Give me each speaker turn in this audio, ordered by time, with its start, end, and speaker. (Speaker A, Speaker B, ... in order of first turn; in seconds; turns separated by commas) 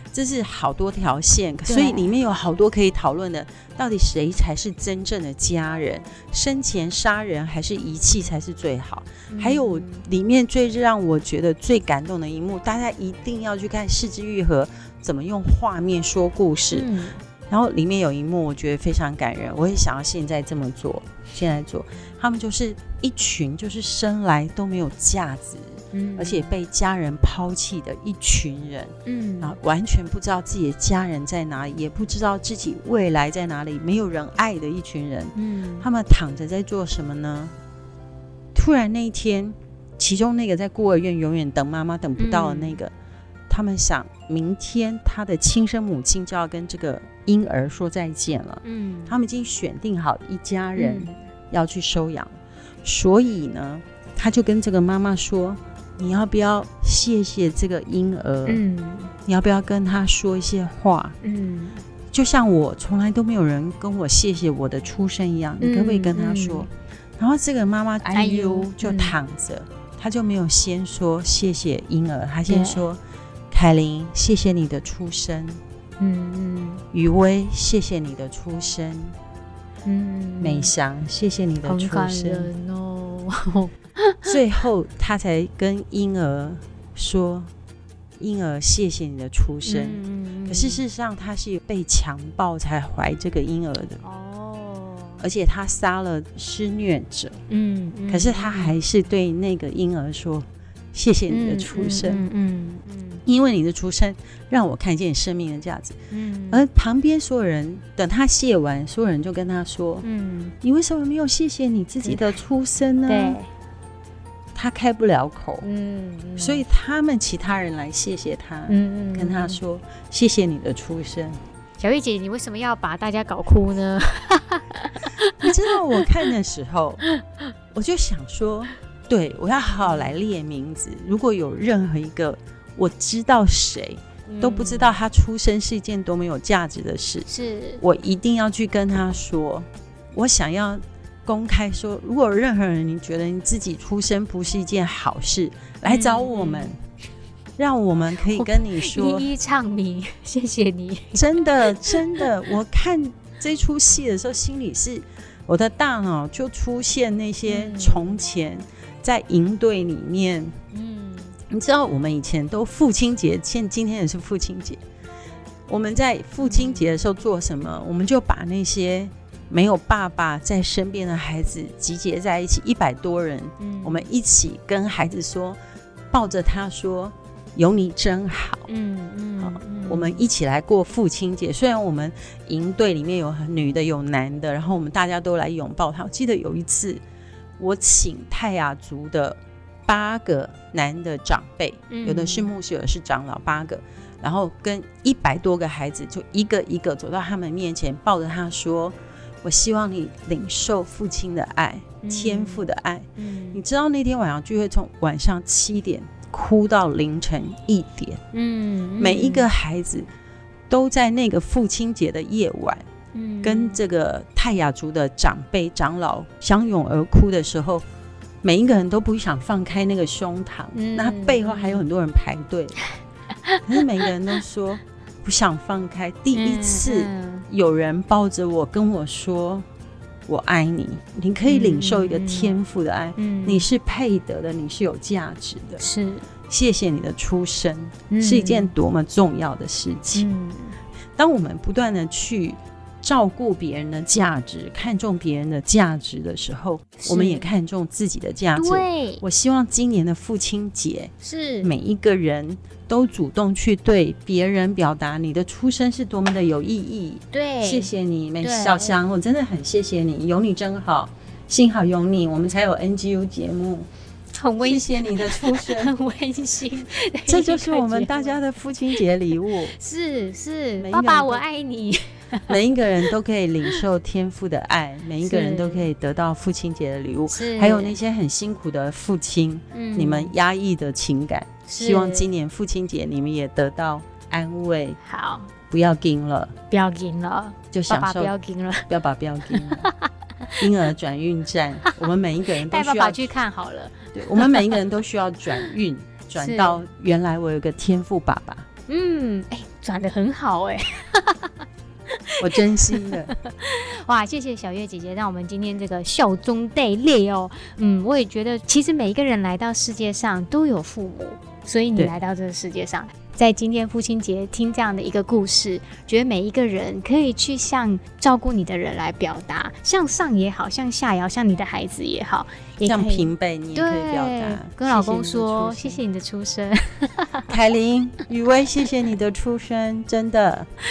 Speaker A: 0.1-16.9, Speaker B: 1.7-2.1, Speaker B: 9.3-10.0, Speaker B: 16.7-17.2, Speaker A: 17.5-37.5, Speaker B: 25.9-26.5, Speaker B: 29.1-29.6, Speaker B: 35.4-35.9, Speaker A: 38.5-42.9, Speaker B: 42.2-42.8, Speaker A: 43.5-58.6, Speaker B: 48.6-49.2, Speaker B: 50.8-51.1, Speaker B: 58.5-59.1, Speaker A: 59.2-61.2, Speaker B: 61.2-61.8, Speaker A: 62.1-73.0, Speaker B: 65.6-66.7, Speaker B: 68.1-69.2, Speaker B: 72.5-72.8, Speaker A: 73.5-75.6, Speaker B: 76.0-76.8, Speaker A: 76.9-79.2, Speaker B: 79.9-80.7, Speaker A: 80.4-82.5, Speaker B: 81.6-84.3, Speaker A: 84.2-87.5, Speaker A: 88.2-94.0, Speaker B: 89.6-90.8, Speaker B: 94.0-95.3, Speaker A: 95.2-97.4, Speaker B: 97.5-98.8, Speaker A: 98.1-102.3, Speaker B: 101.3-103.2, Speaker A: 103.3-106.0, Speaker B: 106.1-106.7, Speaker A: 106.5-110.1, Speaker B: 110.0-110.5, Speaker A: 110.6-113.4, Speaker B: 112.0-112.3, Speaker B: 113.1-113.5, Speaker A: 114.5-115.7, Speaker B: 115.6-116.7, Speaker A: 116.4-121.4, Speaker B: 118.7-119.6, Speaker B: 121.8-126.1, Speaker A: 125.4-127.1, Speaker A: 127.7-137.3, Speaker B: 129.8-130.2, Speaker B: 134.3-135.0, Speaker B: 137.3-137.8, Speaker A: 137.8-146.8, Speaker B: 145.8-146.7, Speaker A: 147.6-149.3, Speaker B: 148.3-152.3, Speaker A: 151.1-160.6, Speaker B: 157.5-158.2, Speaker B: 160.7-161.4, Speaker A: 161.5-164.8, Speaker A: 165.7-175.6, Speaker B: 166.4-167.0, Speaker B: 173.6-174.1, Speaker A: 176.1-178.7, Speaker B: 178.7-180.2, Speaker A: 179.4-187.0, Speaker A: 187.6-208.2, Speaker B: 191.9-192.5, Speaker B: 202.0-203.6, Speaker B: 208.3-209.5, Speaker A: 209.0-210.1, Speaker A: 210.7-212.9, Speaker B: 213.1-213.8, Speaker A: 213.4-217.8, Speaker A: 218.4-222.8, Speaker B: 220.7-221.8, Speaker A: 223.6-229.7, Speaker B: 226.3-227.5, Speaker A: 230.3-235.8, Speaker B: 231.4-232.6, Speaker B: 233.2-233.7, Speaker B: 235.8-236.3, Speaker A: 236.5-240.3, Speaker B: 238.1-238.7, Speaker B: 240.1-240.8, Speaker A: 241.2-263.9, Speaker B: 247.0-247.5, Speaker B: 248.6-249.2, Speaker B: 251.2-251.7, Speaker B: 257.3-259.0, Speaker B: 264.4-268.4, Speaker A: 264.6-265.9, Speaker A: 267.3-269.8, Speaker B: 269.3-272.6, Speaker A: 270.8-271.4, Speaker A: 272.5-285.0, Speaker B: 275.2-275.9, Speaker B: 277.3-278.0, Speaker B: 279.7-280.3, Speaker B: 281.7-282.3, Speaker B: 285.0-285.5, Speaker A: 285.7-286.6, Speaker B: 286.7-288.9, Speaker A: 287.7-288.3, Speaker A: 288.9-289.9, Speaker B: 289.4-290.7, Speaker A: 290.6-293.3, Speaker B: 292.6-294.8, Speaker A: 294.1-298.7, Speaker B: 296.4-296.8, Speaker B: 298.9-327.5, Speaker A: 302.4-303.3, Speaker A: 322.8-326.0, Speaker A: 327.5-330.7